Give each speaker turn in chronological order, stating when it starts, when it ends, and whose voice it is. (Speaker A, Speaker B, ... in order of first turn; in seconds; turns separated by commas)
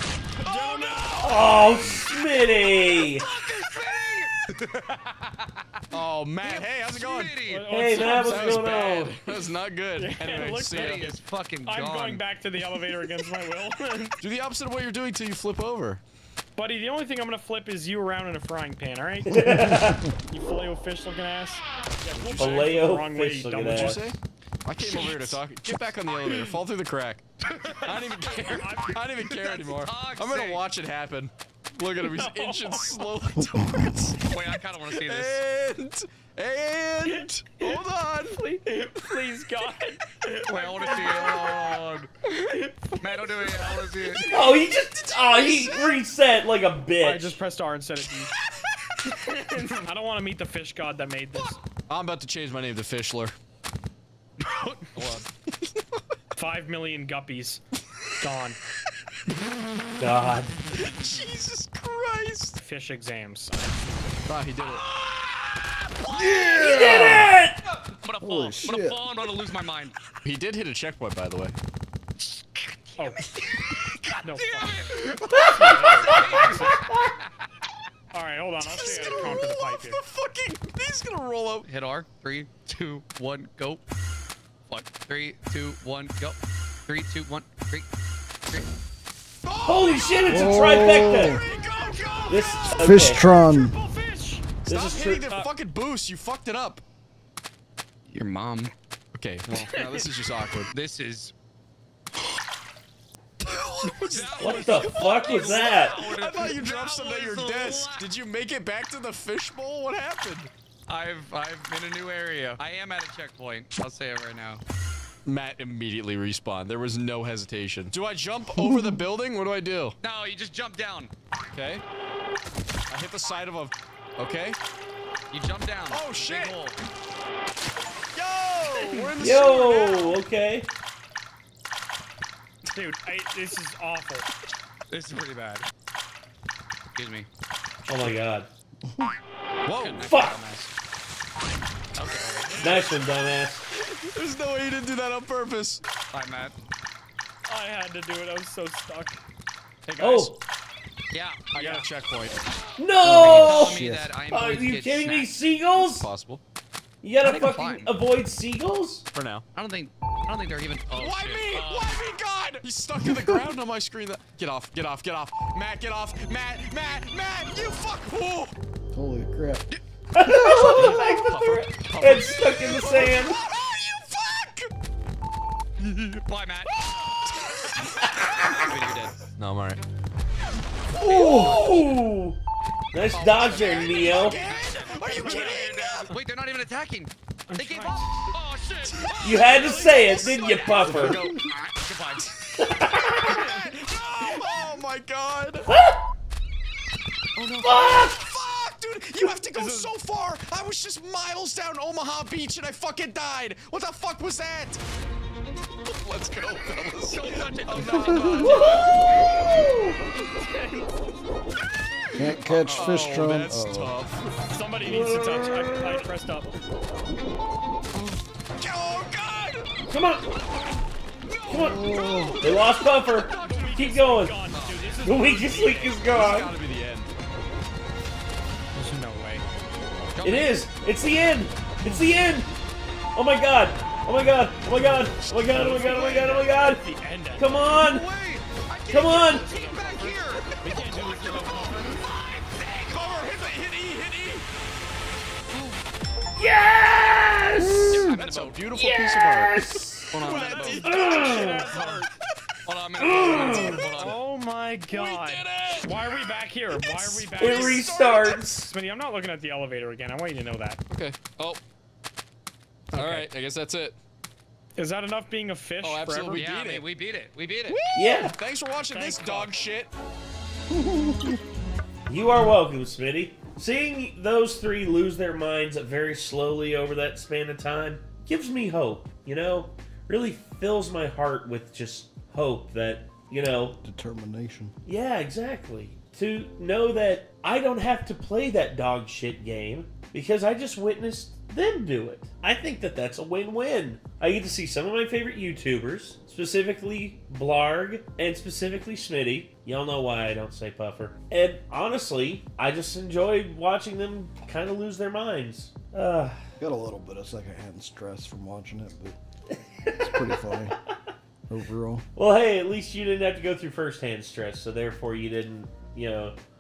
Speaker A: 0.4-1.5, Speaker B: 0.5-5.5, Speaker C: 1.2-3.3, Speaker D: 5.9-11.0, Speaker B: 6.4-7.8, Speaker A: 7.5-9.1, Speaker C: 7.7-9.2, Speaker A: 10.0-14.2, Speaker B: 10.8-12.2, Speaker D: 14.2-16.0, Speaker A: 16.6-24.2, Speaker C: 19.3-20.1, Speaker D: 22.1-22.7, Speaker C: 22.4-24.1, Speaker D: 23.7-27.2, Speaker B: 24.8-25.4, Speaker B: 27.4-28.4, Speaker D: 27.8-38.4, Speaker A: 28.4-29.0, Speaker B: 29.2-30.6, Speaker A: 32.0-33.1, Speaker B: 34.3-35.4, Speaker A: 37.1-37.8, Speaker A: 38.3-41.7, Speaker B: 40.5-42.1, Speaker A: 42.2-44.6, Speaker B: 43.0-44.3, Speaker C: 44.3-47.4, Speaker A: 47.0-48.3, Speaker A: 49.1-51.6, Speaker D: 51.9-53.3, Speaker B: 54.4-55.3, Speaker A: 56.4-58.6, Speaker C: 60.0-60.6, Speaker D: 60.7-62.6, Speaker A: 62.6-64.3, Speaker D: 64.3-64.8, Speaker B: 64.6-70.0, Speaker E: 66.1-67.3, Speaker C: 66.6-67.6, Speaker E: 68.2-69.0, Speaker D: 70.2-71.6, Speaker B: 72.2-77.3, Speaker A: 73.0-73.3, Speaker A: 74.2-76.9, Speaker A: 78.1-80.0, Speaker D: 78.6-81.7, Speaker B: 81.7-83.8, Speaker B: 84.7-87.9, Speaker D: 89.4-93.1, Speaker C: 89.6-91.4, Speaker E: 90.3-91.4, Speaker C: 92.3-93.2, Speaker E: 92.8-93.8, Speaker A: 93.1-94.5, Speaker D: 94.6-96.8, Speaker C: 94.7-95.3, Speaker A: 95.1-95.5, Speaker B: 98.1-98.7, Speaker D: 99.2-100.7, Speaker A: 99.5-100.1, Speaker B: 100.7-101.3, Speaker D: 103.4-110.5, Speaker B: 104.0-108.1, Speaker C: 104.4-106.1, Speaker B: 110.9-114.6, Speaker D: 115.2-120.0, Speaker B: 120.0-121.1, Speaker D: 121.5-121.8, Speaker D: 122.9-124.6, Speaker B: 125.3-126.8, Speaker D: 125.9-126.6, Speaker D: 128.2-130.2, Speaker C: 129.2-130.7, Speaker A: 132.7-134.3, Speaker B: 134.9-135.7, Speaker B: 136.9-137.3, Speaker C: 137.9-138.5, Speaker D: 139.7-140.1, Speaker B: 139.8-140.7, Speaker C: 140.0-140.4, Speaker B: 141.9-142.8, Speaker A: 142.5-143.0, Speaker C: 142.6-143.7, Speaker D: 143.8-145.8, Speaker B: 146.1-146.6, Speaker A: 147.5-149.2, Speaker D: 149.9-150.3, Speaker C: 150.0-150.4, Speaker B: 151.1-151.5, Speaker D: 151.5-152.5, Speaker A: 151.5-151.9, Speaker C: 152.8-156.1, Speaker E: 153.0-154.1, Speaker B: 153.2-155.3, Speaker D: 155.8-156.4, Speaker C: 157.0-159.1, Speaker B: 157.2-157.9, Speaker D: 159.1-159.4, Speaker B: 159.6-162.0, Speaker D: 160.9-168.5, Speaker E: 168.9-169.7, Speaker C: 170.1-173.4, Speaker E: 170.2-171.0, Speaker D: 170.7-174.7, Speaker B: 175.8-176.7, Speaker D: 176.7-177.8, Speaker C: 178.0-178.3, Speaker B: 178.3-179.2, Speaker D: 179.3-179.8, Speaker D: 180.9-181.9, Speaker C: 181.0-182.4, Speaker C: 182.9-184.4, Speaker D: 183.1-186.1, Speaker B: 183.4-189.6, Speaker A: 185.1-185.6, Speaker A: 187.5-188.3, Speaker D: 188.8-191.5, Speaker C: 189.2-191.3, Speaker A: 189.6-190.8, Speaker B: 190.5-191.1, Speaker B: 191.8-192.3, Speaker D: 192.2-195.7, Speaker C: 192.6-193.4, Speaker C: 195.7-196.0, Speaker D: 197.3-204.8, Speaker C: 197.6-198.2, Speaker A: 199.5-199.9, Speaker D: 205.9-209.0, Speaker B: 207.1-209.0, Speaker E: 208.0-208.5, Speaker C: 208.3-210.0, Speaker A: 210.4-210.9, Speaker D: 212.1-214.3, Speaker E: 212.2-214.0, Speaker B: 212.7-213.1, Speaker A: 214.4-216.6, Speaker D: 218.0-219.7, Speaker C: 219.9-220.3, Speaker D: 221.3-223.8, Speaker C: 221.4-224.3, Speaker E: 221.5-222.5, Speaker A: 223.4-226.2, Speaker B: 224.4-225.1, Speaker C: 225.0-226.6, Speaker D: 226.1-227.1, Speaker A: 228.7-229.5, Speaker B: 230.0-230.6, Speaker C: 230.2-232.5, Speaker C: 233.2-236.8, Speaker D: 235.2-235.6, Speaker A: 235.5-237.5, Speaker C: 237.4-238.1, Speaker B: 237.8-243.1, Speaker C: 238.9-239.4, Speaker A: 239.1-242.0, Speaker D: 242.9-244.4, Speaker B: 245.5-245.8, Speaker C: 246.4-248.1, Speaker B: 247.9-248.6, Speaker D: 248.0-249.5, Speaker C: 248.7-250.1, Speaker B: 250.1-250.8, Speaker D: 250.1-252.1, Speaker A: 250.3-252.1, Speaker C: 250.8-251.7, Speaker B: 252.7-254.2, Speaker C: 253.0-253.8, Speaker A: 253.9-258.1, Speaker D: 254.9-256.1, Speaker D: 256.7-258.6, Speaker C: 257.4-258.7, Speaker A: 258.6-260.8, Speaker D: 260.9-261.6, Speaker A: 262.9-263.3, Speaker D: 262.9-264.0, Speaker A: 264.8-266.5, Speaker D: 265.8-266.9, Speaker B: 266.3-267.8, Speaker D: 267.7-269.9, Speaker C: 267.9-268.4, Speaker A: 268.9-269.5, Speaker E: 270.7-271.4, Speaker C: 272.1-283.8, Speaker E: 283.8-284.8, Speaker C: 284.9-306.4, Speaker E: 306.6-309.2, Speaker C: 309.9-310.4, Speaker E: 309.9-310.8, Speaker E: 311.5-312.1, Speaker C: 312.1-316.4